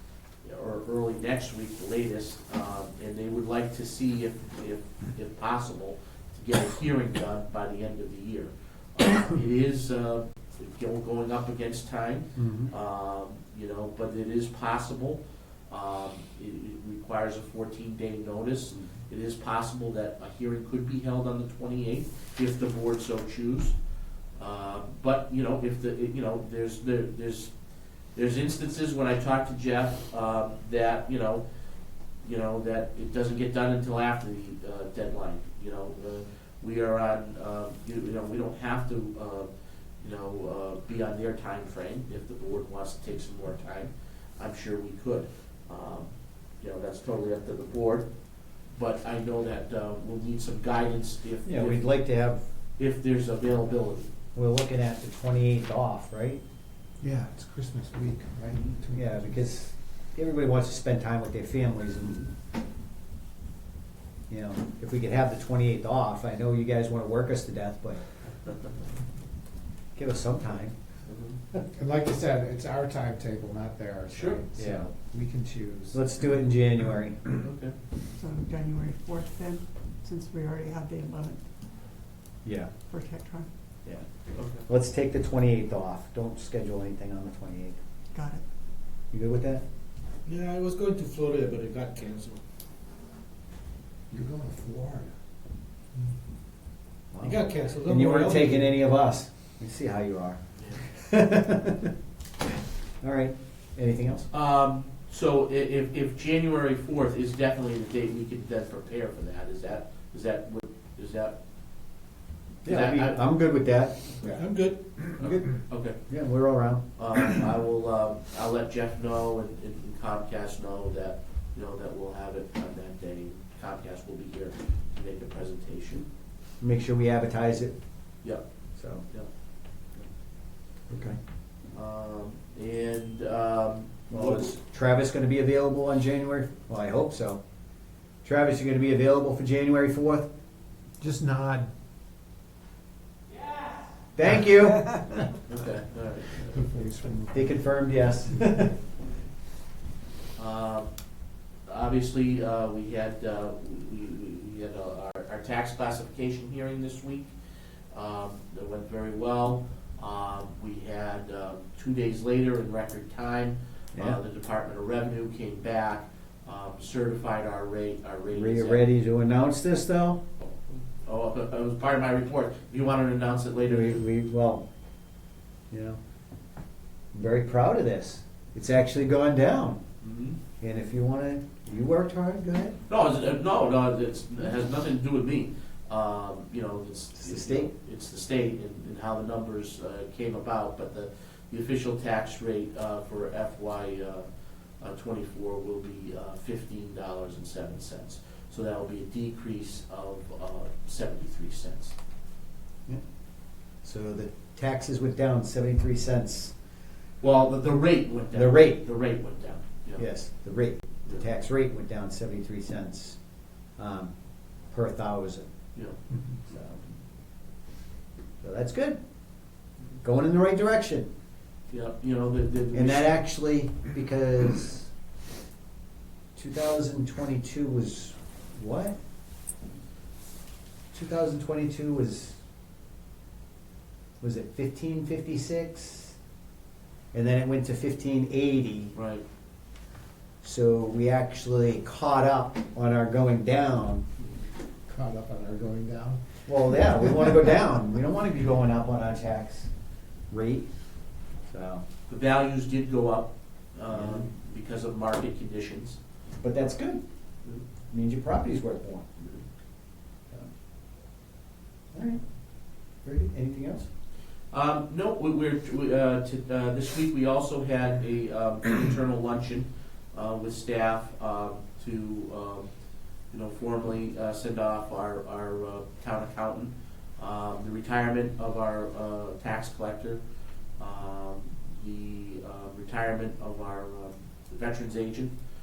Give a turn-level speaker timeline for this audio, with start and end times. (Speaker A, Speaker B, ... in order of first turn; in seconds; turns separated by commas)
Speaker A: 0.4-23.8, Speaker B: 12.4-12.7, Speaker A: 24.4-27.5, Speaker A: 28.1-31.4, Speaker A: 32.2-39.5, Speaker A: 40.0-48.1, Speaker A: 48.7-51.9, Speaker B: 51.5-52.4, Speaker A: 52.8-54.1, Speaker B: 54.4-56.4, Speaker C: 57.0-59.3, Speaker B: 58.9-62.2, Speaker B: 64.3-68.0, Speaker B: 70.0-70.7, Speaker A: 71.1-71.4, Speaker C: 71.8-76.0, Speaker A: 74.1-74.4, Speaker B: 74.6-74.9, Speaker B: 75.9-77.4, Speaker A: 77.4-77.8, Speaker D: 78.2-81.4, Speaker B: 82.5-82.7, Speaker D: 82.9-83.5, Speaker A: 84.3-84.7, Speaker B: 84.7-87.8, Speaker D: 88.1-88.4, Speaker B: 89.1-89.6, Speaker E: 90.3-92.4, Speaker C: 94.1-95.1, Speaker B: 97.1-101.9, Speaker E: 97.2-98.8, Speaker A: 100.6-100.8, Speaker B: 103.0-104.3, Speaker A: 104.3-111.4, Speaker B: 112.7-114.4, Speaker A: 112.7-113.2, Speaker E: 114.2-115.1, Speaker B: 115.1-115.5, Speaker A: 115.2-116.0, Speaker B: 116.1-116.8, Speaker A: 117.0-126.1, Speaker B: 126.6-127.8, Speaker B: 128.8-129.1, Speaker B: 130.9-131.2, Speaker A: 131.7-134.6, Speaker B: 134.1-137.4, Speaker B: 138.2-140.3, Speaker C: 141.0-141.7, Speaker B: 144.2-145.2, Speaker A: 145.5-146.7, Speaker C: 146.4-147.6, Speaker B: 147.3-148.8, Speaker A: 150.4-150.9, Speaker A: 151.7-157.3, Speaker A: 157.9-168.8, Speaker B: 163.9-164.2, Speaker B: 168.3-170.2, Speaker A: 170.4-174.0, Speaker B: 173.7-174.7, Speaker B: 175.7-176.0, Speaker B: 177.1-179.8, Speaker A: 180.0-180.4, Speaker B: 180.6-182.8, Speaker A: 182.9-194.3, Speaker B: 187.2-187.7, Speaker A: 194.8-201.9, Speaker B: 203.8-206.5, Speaker A: 207.2-210.1, Speaker B: 208.3-208.8, Speaker B: 210.0-213.2, Speaker B: 213.8-214.1, Speaker B: 214.7-215.5, Speaker B: 216.5-216.8, Speaker B: 218.4-219.0, Speaker B: 220.0-221.1, Speaker A: 221.7-223.2, Speaker B: 222.7-224.9, Speaker B: 226.4-229.0, Speaker B: 230.9-232.4, Speaker B: 234.2-236.2, Speaker B: 237.1-238.9, Speaker A: 238.9-239.2, Speaker B: 240.4-244.0, Speaker C: 244.9-246.2, Speaker B: 246.5-249.7, Speaker B: 250.3-250.7, Speaker B: 251.5-251.8, Speaker A: 252.1-256.0, Speaker B: 253.9-254.3, Speaker B: 256.4-257.0, Speaker B: 257.9-259.1, Speaker B: 261.9-262.2, Speaker B: 263.0-263.9, Speaker A: 264.5-272.7, Speaker A: 273.3-280.2, Speaker A: 280.8-285.3